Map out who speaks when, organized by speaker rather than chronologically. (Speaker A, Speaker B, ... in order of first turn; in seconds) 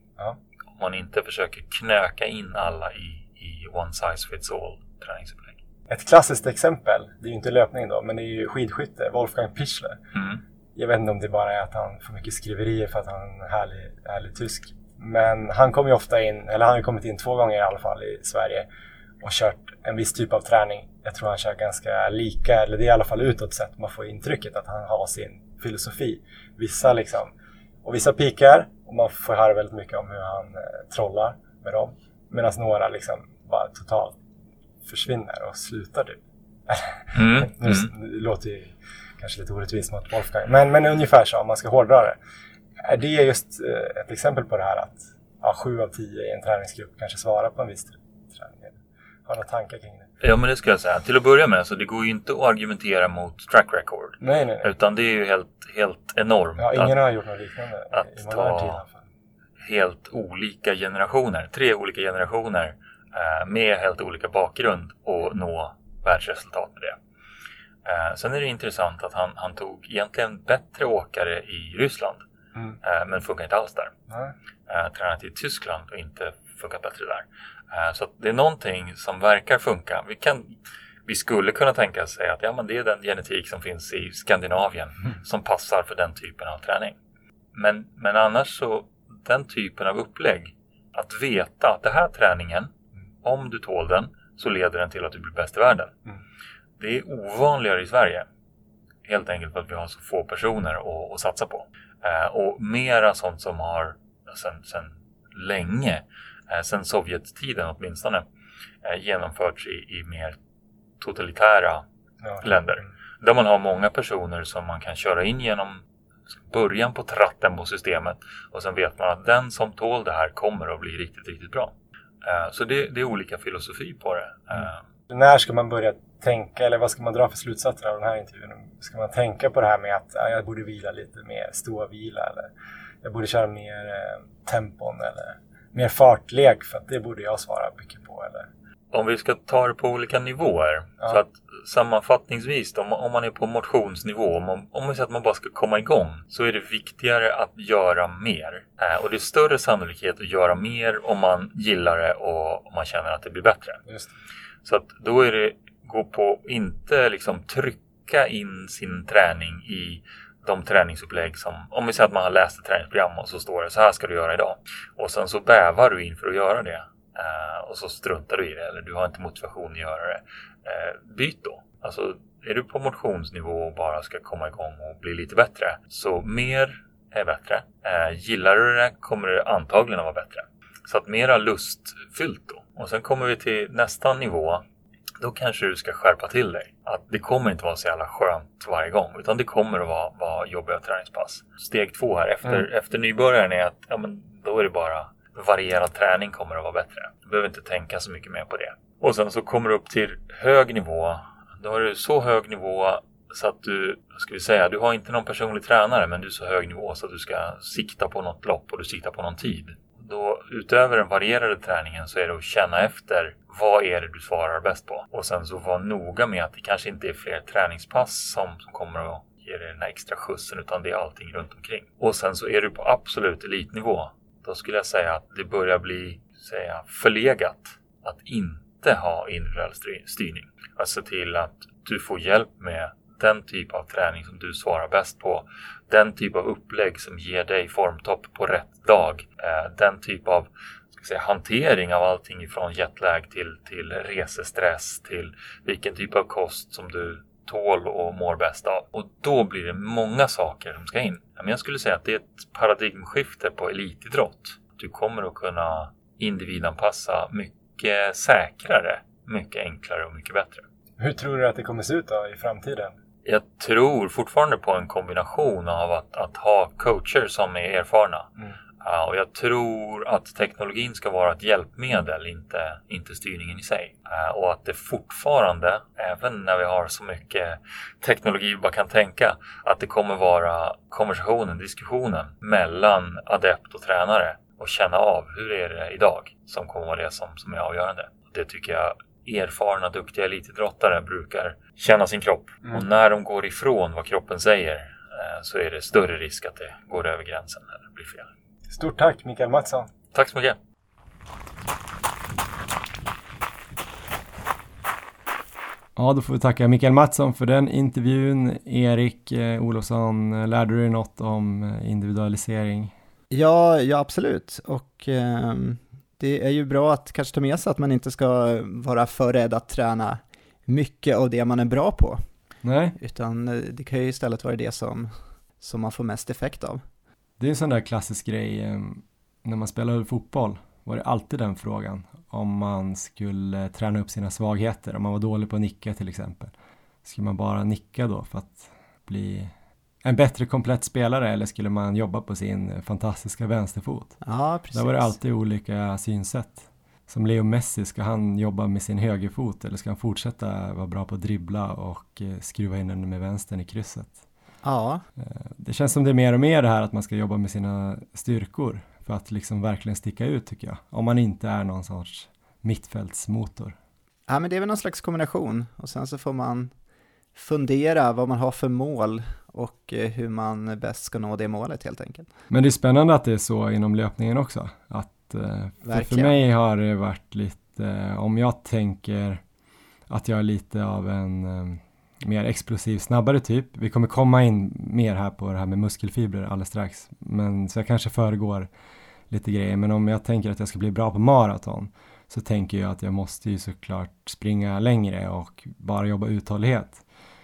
Speaker A: 0.8-5.6, 10.2-10.4, 37.1-37.9, 50.2-57.0, 57.9-58.8, 59.6-67.0, 67.8-72.2, 72.8-73.9, 74.7-80.5, 81.1-87.0, 87.5-92.7, 93.2-95.9, 96.8-98.3, 99.0-108.2, 108.8-110.4, 111.0-111.8, 112.4-115.8, 116.4-124.8, 138.9-153.8, 154.6-184.6, 185.2-260.6, 263.2-268.3, 268.8-298.3, 300.1-300.6
Speaker B: 5.9-10.0, 10.8-18.7, 19.2-27.3, 27.8-34.2, 34.9-42.2, 42.8-48.7, 49.3-50.1, 54.2-54.7, 56.6-59.0, 125.1-132.5, 133.0-138.5, 153.9-154.1, 261.0-262.9, 298.7-299.9
Speaker C: 306.0-312.9, 322.6-323.0, 327.4-336.5, 337.0-339.5, 340.1-344.2, 344.7-354.2, 355.2-363.8, 372.5-379.4, 380.1-388.7, 389.3-397.0
Speaker D: 313.3-322.2, 323.0-326.8, 344.2-345.2, 354.6-355.0, 364.3-366.7, 367.4-372.3, 375.8-376.4